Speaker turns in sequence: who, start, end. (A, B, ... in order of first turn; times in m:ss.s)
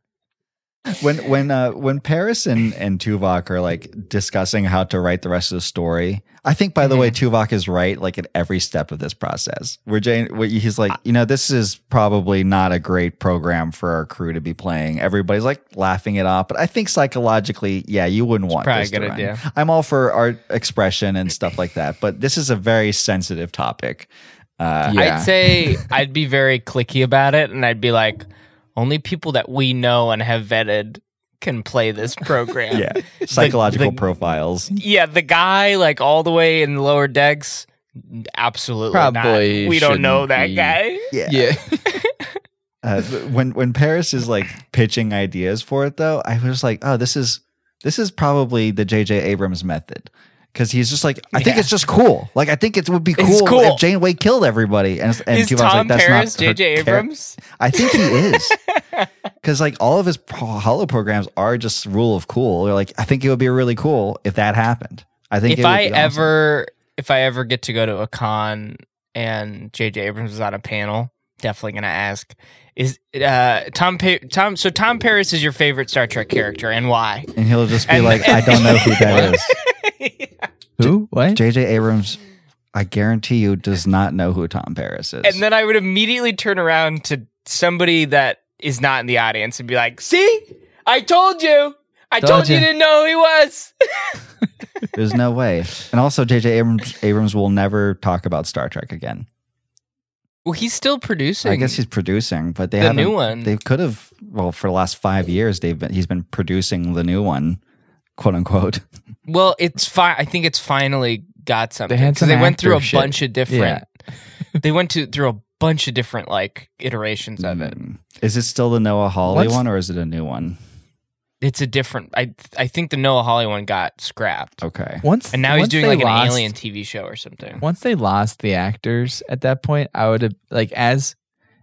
0:00.9-0:25.1 A
0:06.8-0:07.1 B
0:18.5-0:19.4 B
0:24.8-0:25.3 C
0:24.9-0:34.0 B
0:32.7-0:34.8 A
0:34.7-0:41.1 B
0:38.9-0:41.9 C
0:41.1-0:41.5 A
0:42.8-0:58.6 A
0:51.3-0:51.7 B
0:53.2-0:53.8 B
0:55.3-0:59.1 B
0:59.4-1:06.3 A
1:05.5-1:17.3 B
1:17.4-1:19.5 A
1:17.8-1:20.5 B
1:20.8-1:21.4 C
1:20.8-1:22.2 A
1:22.7-1:25.4 A
1:25.2-1:34.1 B
1:32.2-1:32.7 C
1:34.9-1:39.2 A
1:40.4-1:41.8 B
1:41.4-1:47.6 A
1:42.8-1:43.5 B
1:48.2-1:48.8 A
1:49.3-1:53.9 B
1:51.9-1:53.8 C
1:54.6-1:57.8 B
1:57.4-2:00.6 A
1:59.3-1:59.6 C
2:01.4-2:04.6 B
2:04.6-2:05.0 A
2:05.0-2:06.5 C
2:05.3-2:07.6 B
2:07.6-2:11.1 C